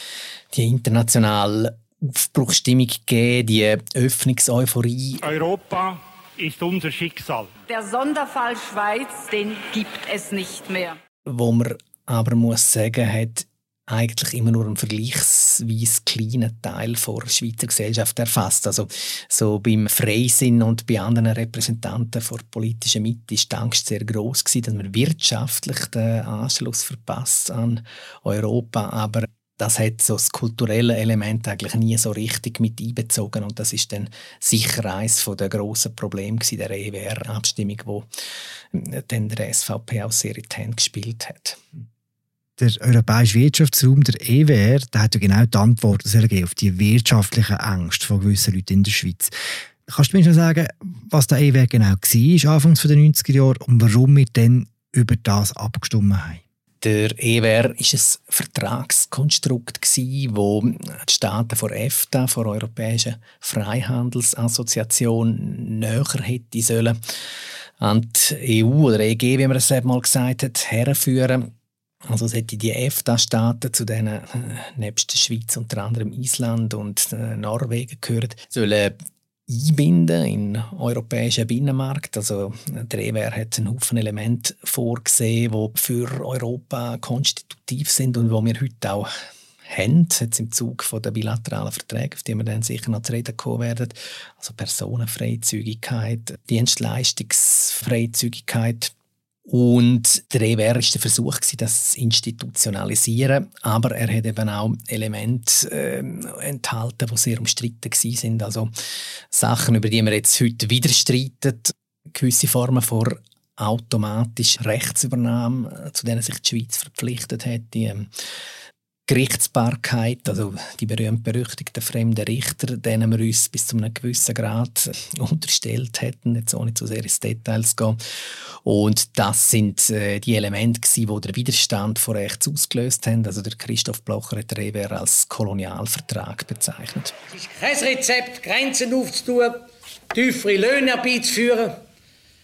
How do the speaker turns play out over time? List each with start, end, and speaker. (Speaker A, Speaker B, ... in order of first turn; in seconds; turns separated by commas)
Speaker A: 0.5-5.2, Speaker B: 5.2-7.5, Speaker C: 7.7-11.0, Speaker A: 11.3-38.1, Speaker A: 38.7-41.6, Speaker D: 42.6-49.3, Speaker D: 49.9-56.4, Speaker A: 56.8-67.0, Speaker A: 67.8-71.5, Speaker A: 72.1-79.0, Speaker A: 79.5-89.1, Speaker A: 89.7-98.9, Speaker A: 99.5-108.7, Speaker A: 109.3-118.1, Speaker A: 119.1-128.0, Speaker A: 128.6-137.1, Speaker E: 137.3-141.8